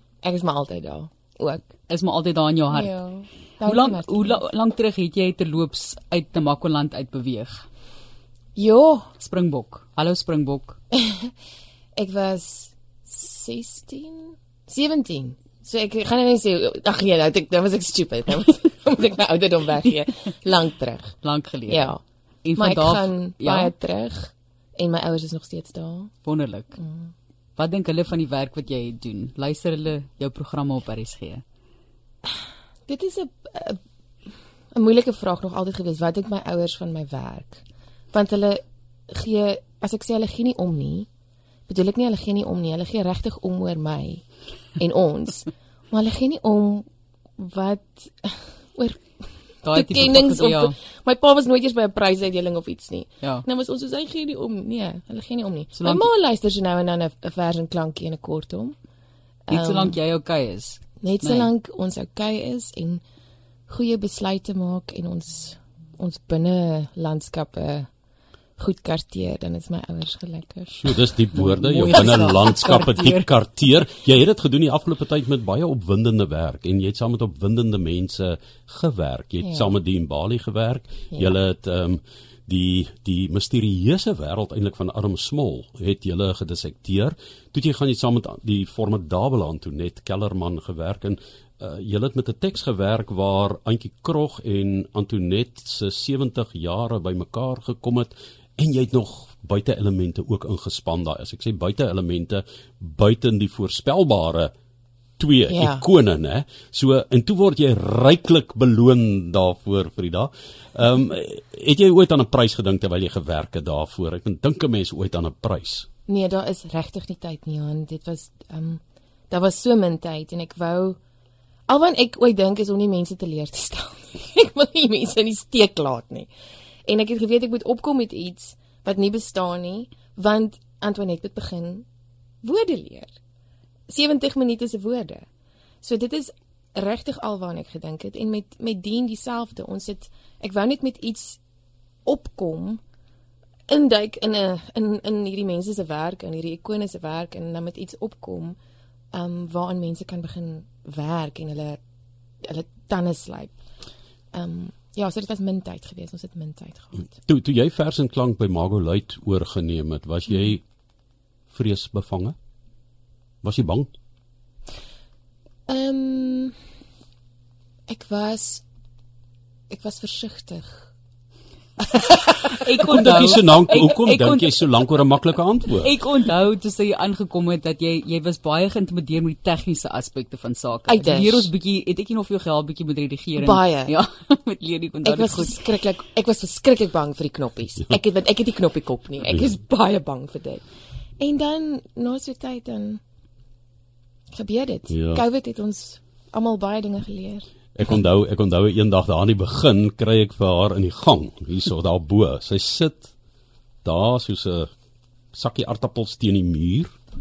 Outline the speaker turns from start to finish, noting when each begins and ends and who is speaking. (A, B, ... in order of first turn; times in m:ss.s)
0:00.2-0:01.7 A
0:01.9-0:03.0 B
0:02.7-0:04.4 A
0:03.6-0:07.6 B
0:08.5-0:09.1 A
0:09.2-0:10.8 B
0:10.9-0:11.3 A
0:12.0-0:21.2 A
0:21.2-0:23.7 B
0:21.7-0:22.0 A
0:22.6-0:26.1 A
0:26.2-0:26.8 B
0:26.8-0:27.1 A
0:27.6-0:31.4 B
0:32.8-0:33.8 A
0:34.7-0:41.1 A
0:41.7-0:44.2 A
0:44.8-0:58.8 A
0:49.6-0:50.8 B
0:55.7-0:56.1 B
0:59.5-1:00.0 A
0:59.5-1:01.5 B
1:01.0-1:03.0 A
1:03.7-1:07.9 A
1:08.6-1:11.0 A
1:10.7-1:44.5 C
1:11.4-1:13.3 B
1:11.9-1:12.8 A
1:19.4-1:19.7 A
1:45.2-1:55.9 C
1:45.5-1:45.8 A
1:56.1-2:01.0 A
2:01.7-2:06.3 A
2:06.8-2:11.8 A
2:12.4-2:13.2 A
2:13.9-2:15.2 A
2:15.8-2:21.4 A
2:22.0-2:22.8 A
2:23.7-2:28.6 A
2:29.1-2:31.8 A
2:32.4-2:33.6 A
2:34.3-2:37.1 A
2:37.1-2:40.6 C
2:41.5-2:42.3 C
2:43.4-2:43.9 C
2:45.7-2:46.6 A
2:47.9-2:48.6 A
2:49.7-2:50.9 A
2:51.8-2:53.2 A
2:52.5-2:55.0 B
2:52.8-2:55.9 C
2:55.7-3:05.7 B
3:00.9-3:01.5 A
3:03.4-3:03.9 A
3:05.0-3:10.6 A
3:11.2-3:13.0 A
3:14.3-3:17.4 A
3:14.9-3:15.2 C
3:17.8-3:23.1 C
3:23.8-3:24.7 C
3:25.3-3:26.9 C